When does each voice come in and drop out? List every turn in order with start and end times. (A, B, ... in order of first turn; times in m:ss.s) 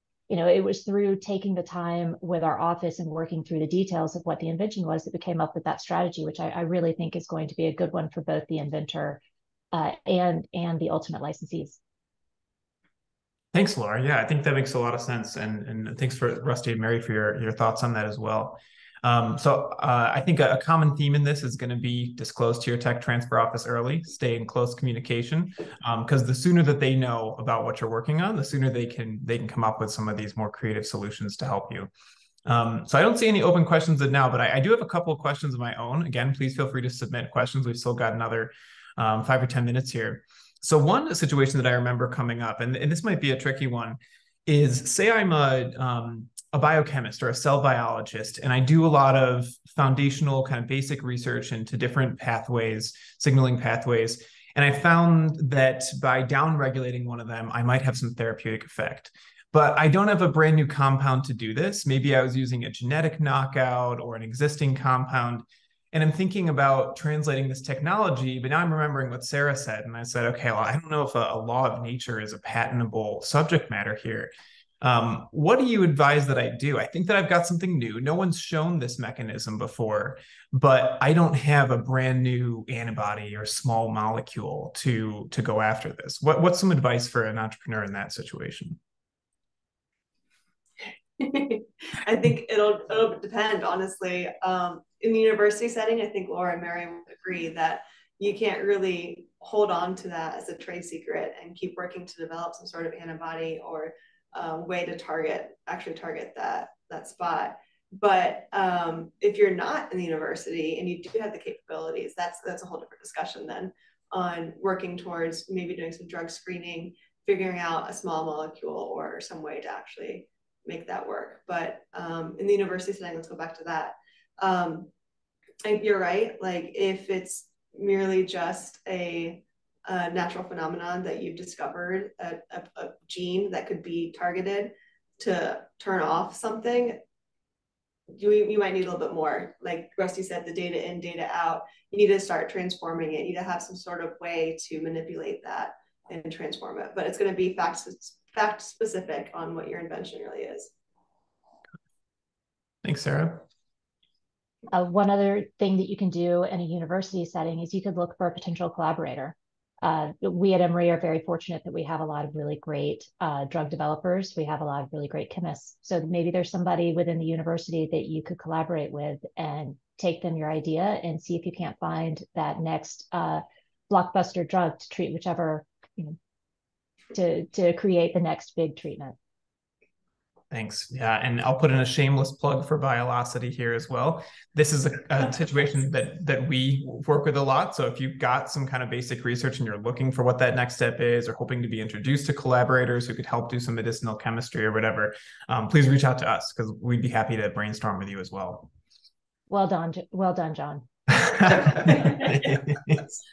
0:00.3-0:09.2 A
0:09.7-0:11.8 A
0:13.5-0:31.9 B
0:32.4-1:28.8 B
1:31.2-2:04.9 C
2:05.6-2:17.0 C
2:18.1-2:30.7 C
2:32.8-2:33.4 B
2:34.7-2:56.2 A
2:57.1-2:59.2 A
3:00.5-3:18.7 B
3:19.5-3:20.9 A
3:21.2-3:23.0 B
3:21.6-3:22.2 A